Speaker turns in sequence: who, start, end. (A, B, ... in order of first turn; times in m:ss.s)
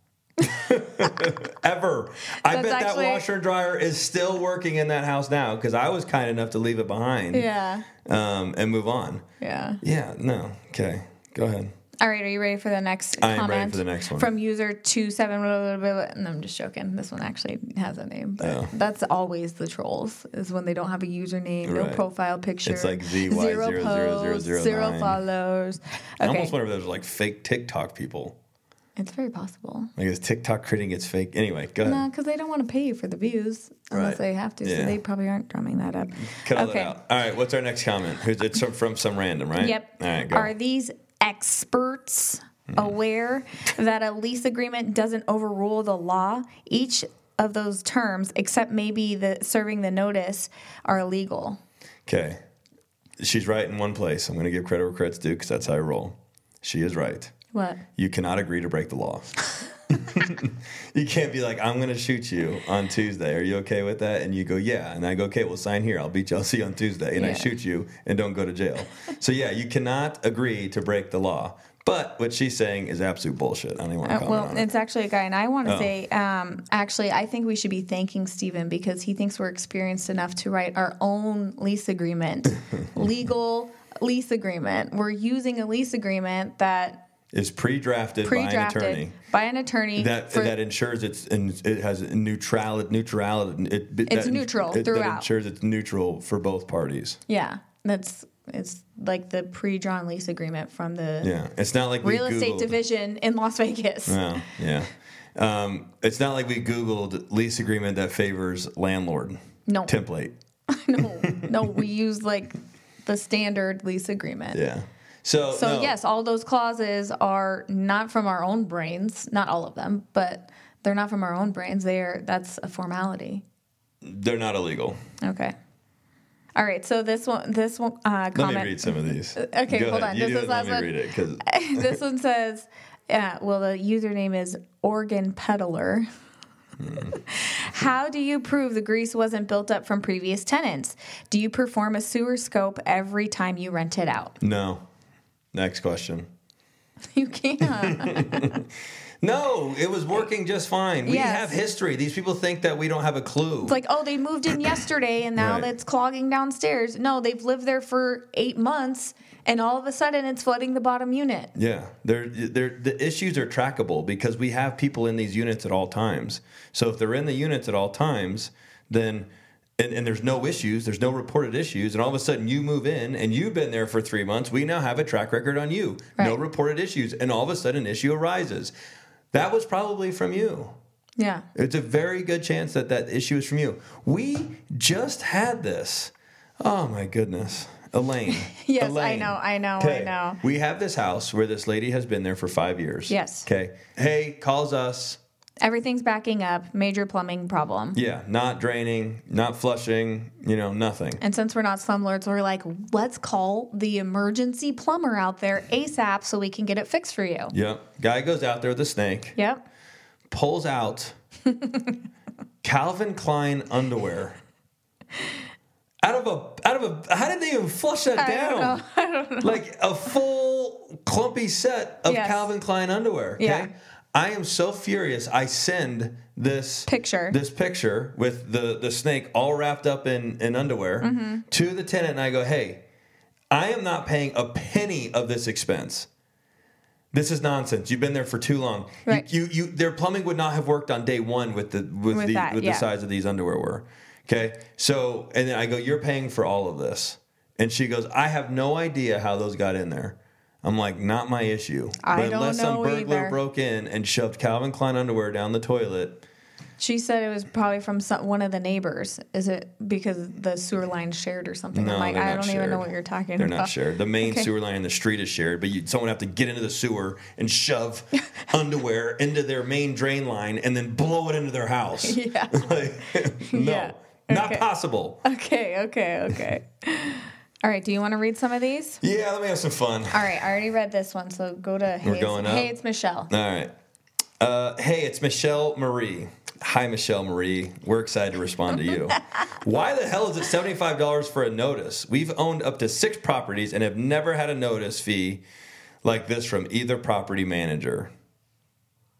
0:00.4-0:07.5 A
0:02.4-0:03.2 B
0:07.3-0:07.9 B
0:08.0-0:09.2 A
0:09.4-0:09.8 B
0:09.8-0:11.7 A
0:12.0-0:26.5 B
0:13.2-0:14.3 A
0:18.4-0:18.7 A
0:21.6-0:22.0 A
0:22.6-0:25.2 A
0:26.2-0:28.4 A
0:29.0-0:29.9 B
0:30.0-0:32.0 A
0:31.8-0:36.9 B
0:33.9-0:35.0 A
0:36.2-0:40.5 A
0:39.6-0:51.6 B
0:52.0-0:52.4 A
0:53.2-0:57.3 A
0:57.5-0:57.8 B
0:58.0-1:14.7 A
1:07.1-1:07.5 B
1:14.0-1:27.0 B
1:15.6-1:15.9 A
1:27.3-1:29.1 A
1:28.2-1:30.6 B
1:30.0-1:37.2 A
1:34.1-1:35.3 B
1:37.3-1:41.3 B
1:41.2-1:42.8 A
1:42.0-1:44.3 B
1:44.0-1:50.3 A
1:49.7-1:50.0 B
1:50.7-1:54.6 B
1:51.2-1:51.5 A
1:54.5-1:55.9 A
1:55.5-2:03.4 B
2:04.0-2:05.0 A
2:05.2-2:05.5 B
2:06.6-2:16.0 B
2:08.3-2:12.0 A
2:16.8-2:17.1 A
2:17.0-2:24.4 B
2:24.4-2:24.8 A
2:25.5-2:26.2 A
2:27.1-2:28.6 B
2:27.8-2:28.6 A
2:29.2-2:33.8 A
2:31.0-2:31.6 B
2:33.6-2:41.5 B
2:35.4-2:35.7 A
2:41.5-2:58.7 A
2:59.3-3:00.7 A
3:01.2-3:01.4 B
3:01.5-3:15.2 A
3:08.3-3:10.4 B
3:13.1-3:13.5 B
3:15.6-3:18.0 B
3:17.9-3:21.2 A
3:21.2-3:27.5 B
3:27.5-3:29.3 A
3:29.3-3:29.6 B
3:30.3-3:31.1 A
3:31.5-3:31.9 B
3:32.6-3:34.4 A
3:36.0-3:38.8 A
3:38.2-3:39.6 B
3:39.4-3:52.8 A
3:42.0-3:42.5 B
3:43.4-3:43.7 B
3:46.9-3:47.4 B
3:51.0-3:51.4 B
3:53.5-3:56.1 A
3:57.1-4:16.2 A
4:02.1-4:02.9 B
4:12.0-4:13.4 B
4:16.8-4:24.5 B
4:21.7-4:35.2 A
4:32.0-4:32.9 B
4:33.4-4:34.7 B
4:35.2-4:39.0 B
4:39.0-4:40.4 A
4:40.1-4:43.3 B
4:42.0-4:42.7 A
4:43.3-4:43.7 A
4:44.4-4:55.4 A
4:56.0-4:58.1 A